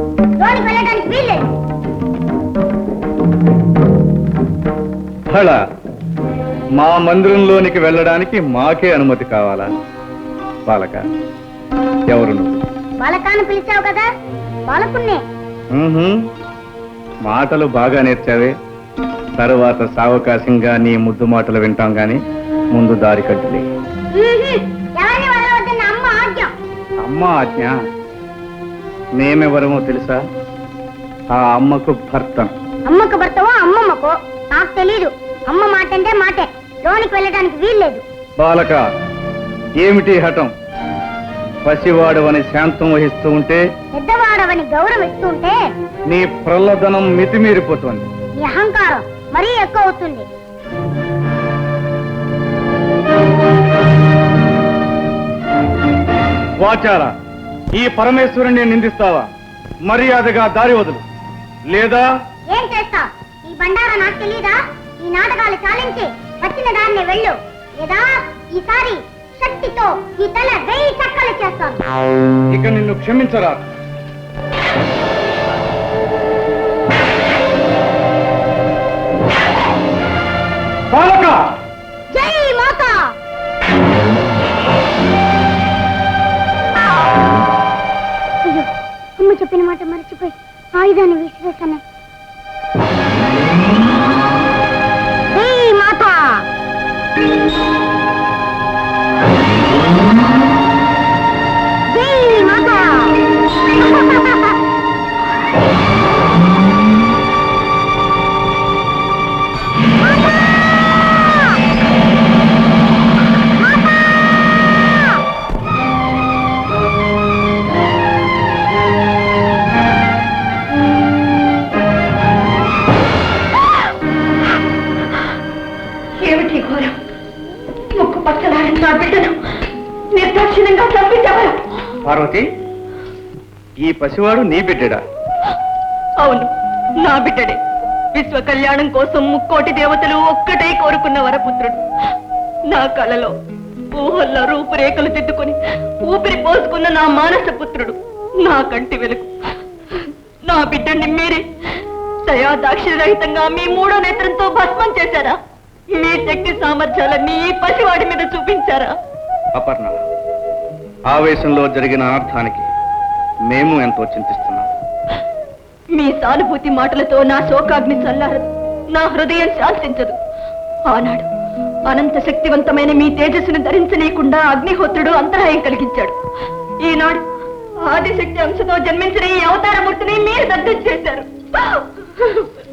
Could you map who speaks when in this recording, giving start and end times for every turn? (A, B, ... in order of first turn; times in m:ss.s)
0:00.4-0:01.5 A
0:05.3-0:05.6 B
0:06.8-0:09.7 B
0:10.7-0:11.1 B
0:12.1-0:12.6 B
0:13.0-0:14.1 A
0:14.7-0:15.2 A
0:15.7-0:16.2 B
0:17.3-0:18.5 B
0:19.4-0:22.2 B
0:22.7-0:23.6 B
0:24.1-0:26.5 A
0:27.0-0:27.8 B
0:29.2-0:30.2 B
0:31.3-0:32.5 B
0:32.9-0:38.0 A
0:38.4-0:38.8 B
0:39.8-0:40.5 B
0:41.6-0:43.6 B
0:43.9-0:45.6 A
0:46.1-0:48.1 B
0:48.4-0:50.3 A
0:56.6-0:57.1 B
0:57.7-0:59.3 B
0:59.9-1:01.0 B
1:01.7-1:02.1 B
1:02.5-1:11.8 A
1:12.5-1:13.6 B
1:20.9-1:21.4 B
1:22.1-1:23.1 A
1:29.2-1:31.8 A
1:35.3-1:36.4 A
1:41.9-1:43.1 A
1:43.8-1:44.6 A
2:06.2-2:07.0 C
2:08.0-2:09.4 C
2:10.2-2:11.6 C
2:12.0-2:12.5 B
2:13.8-2:15.0 B
2:16.2-2:16.5 C
2:17.0-2:17.6 C
2:18.2-2:21.8 C
2:22.7-2:23.3 C
2:24.0-2:29.3 C
2:30.0-2:31.4 C
2:32.3-2:35.4 C
2:36.0-2:39.0 C
2:39.6-2:40.0 B
2:41.1-2:42.7 B
2:43.5-2:44.7 B
2:46.0-2:50.2 C
2:50.9-2:51.3 C
2:51.9-2:56.2 C
2:56.8-2:57.2 C
2:57.9-3:02.5 C